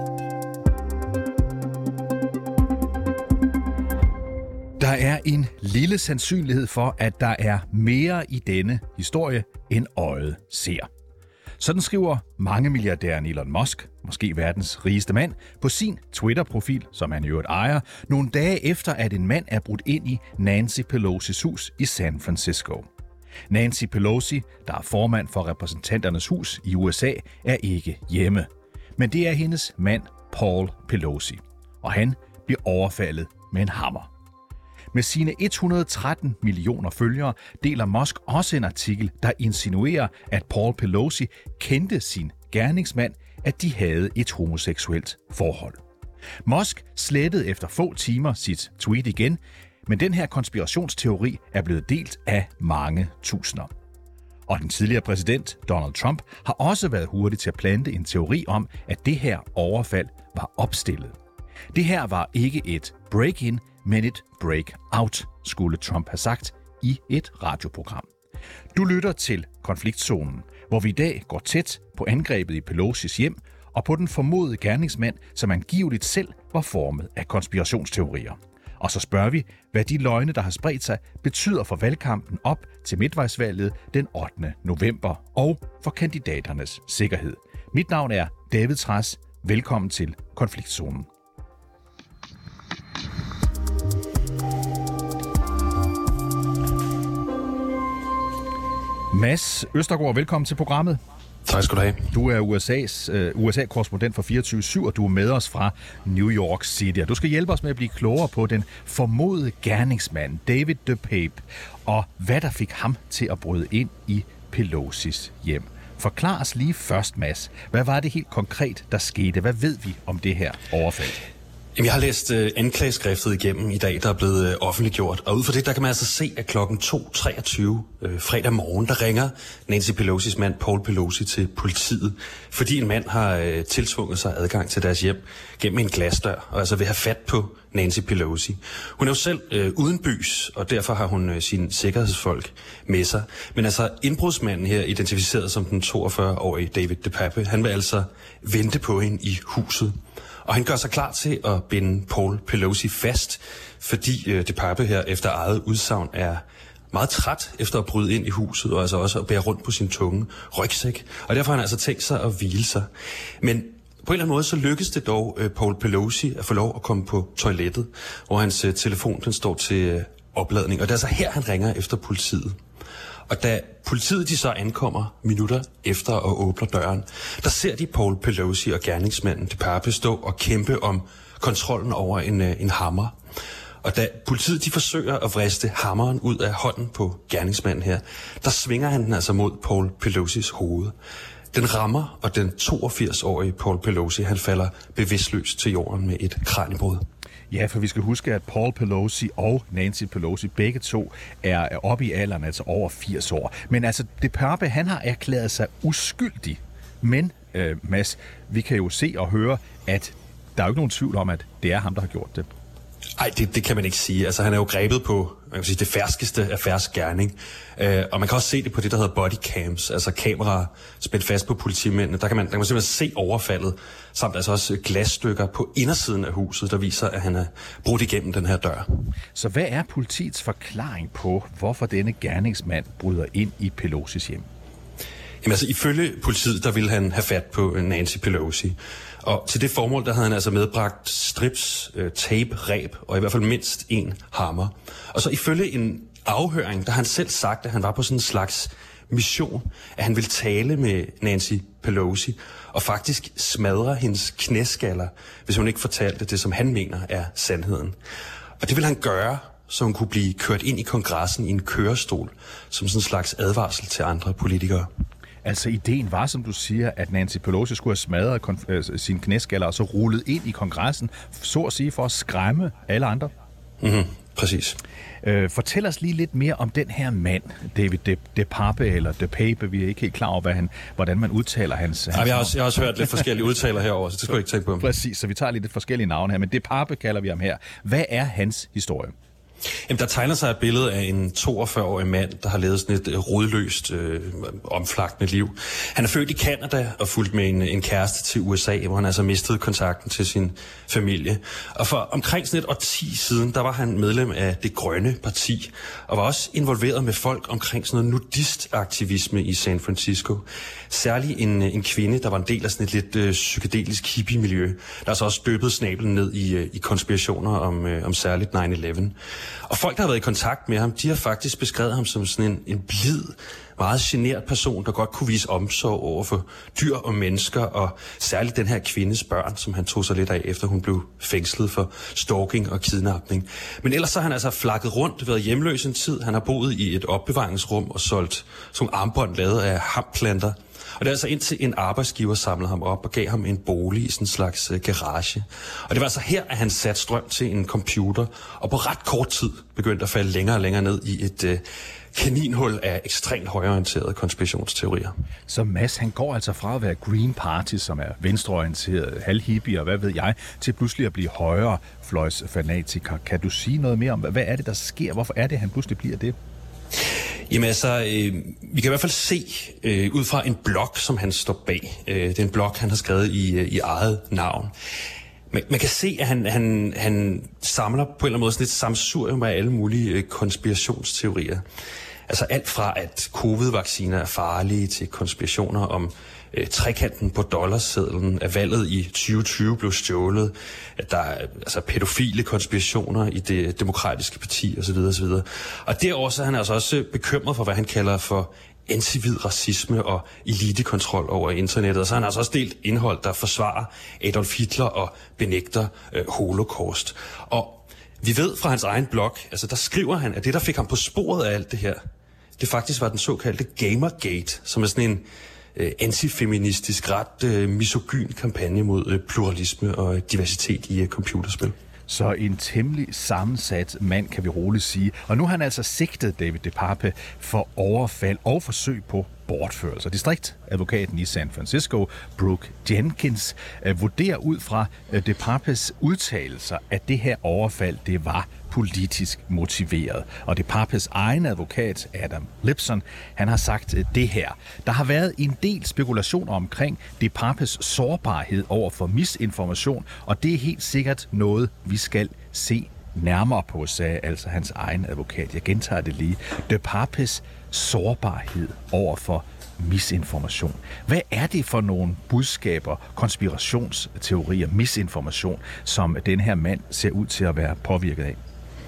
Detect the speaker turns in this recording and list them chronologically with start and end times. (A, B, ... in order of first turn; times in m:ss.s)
0:04.8-0:10.9 A
0:11.6-0:22.9 A
0:23.5-0:34.1 A
0:34.9-0:45.8 A
0:46.4-0:53.7 A
0:54.5-1:01.2 A
1:01.7-1:08.1 A
1:08.7-1:31.1 A
1:39.1-1:41.0 A
1:41.5-1:42.1 B
1:42.1-2:01.2 A
2:01.8-2:42.9 B
2:43.4-2:52.6 B
2:53.3-3:03.2 B
3:03.8-3:11.0 B
3:11.5-3:17.0 B
3:17.5-3:32.5 A
3:33.2-3:48.9 B
3:49.4-3:54.5 A
3:55.4-4:18.0 B
4:18.6-4:24.9 B
4:25.4-4:33.3 A
4:33.8-4:34.8 B
4:35.2-4:43.2 A
4:42.1-4:44.9 B
4:44.8-4:49.2 A
4:49.9-5:19.2 B
5:19.7-5:55.1 B
5:55.5-6:06.4 A
6:07.5-6:14.7 B
6:15.5-6:21.6 B
6:22.3-6:52.0 B
6:52.6-7:01.8 B
7:02.1-7:48.4 A